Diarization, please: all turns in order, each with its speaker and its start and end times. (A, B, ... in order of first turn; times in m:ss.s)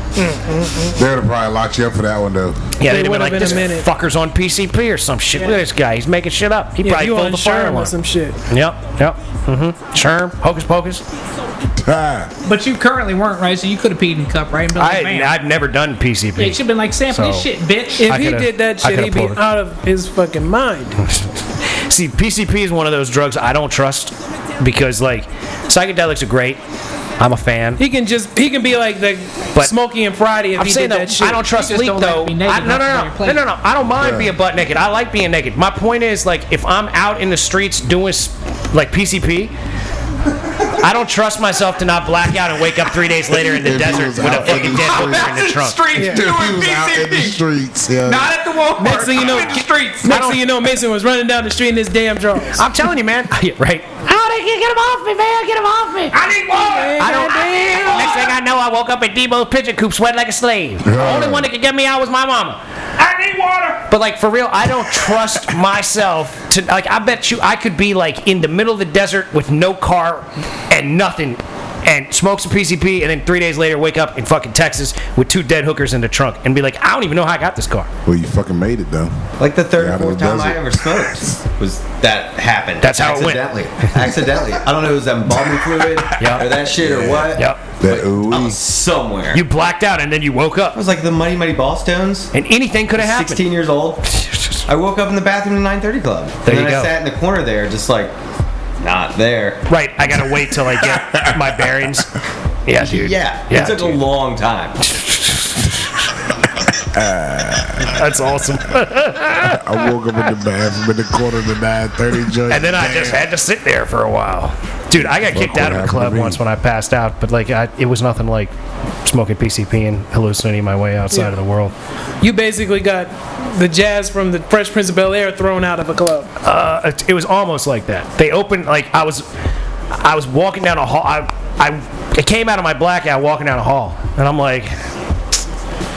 0:00.2-0:01.0 A
0:00.9-0:02.8 B
0:02.8-0:07.9 C
0:02.8-0:03.9 A
0:06.8-0:08.4 A
0:08.5-0:11.0 C
0:11.8-0:12.3 B
0:12.4-0:15.4 D
0:14.8-0:17.5 C
0:16.4-0:18.1 D
0:18.0-0:21.0 A
0:18.1-0:19.4 C
0:21.0-0:26.6 C
0:27.2-0:27.8 C
0:27.8-0:31.5 A
0:30.6-0:39.5 C
0:31.5-0:33.4 D
0:34.0-0:34.3 B
0:40.8-0:45.8 C
0:43.3-0:45.4 B
0:44.3-0:47.4 D
0:45.9-0:48.3 B
0:46.0-0:46.2 A
0:48.0-0:50.2 D
0:48.8-0:52.6 A
0:50.1-0:50.4 C
0:52.6-0:56.2 C
0:56.1-0:58.3 D
0:56.5-0:58.2 A
0:57.0-1:02.6 C
1:00.8-1:01.5 B
1:03.0-1:03.9 D
1:03.9-1:17.9 C
1:18.1-1:21.4 B
1:19.4-1:29.4 E
1:22.8-1:23.4 C
1:26.2-1:26.5 C
1:26.5-1:28.6 B
1:27.4-1:27.6 C
1:29.3-1:30.8 C
1:30.7-1:32.3 E
1:32.3-1:33.4 C
1:33.0-1:34.1 E
1:34.1-1:34.7 C
1:34.7-1:38.2 E
1:36.4-1:36.9 C
1:38.8-1:39.6 E
1:39.7-1:42.1 C
1:42.7-1:44.0 C
1:42.8-1:44.8 E
1:44.8-1:45.9 C
1:46.9-1:48.0 B
1:47.9-1:49.9 C
1:49.4-1:53.3 B
1:52.5-1:58.5 C
1:55.0-1:56.4 B
1:59.0-2:01.7 C
2:02.2-2:06.3 A
2:06.4-2:09.3 C
2:09.9-2:14.8 C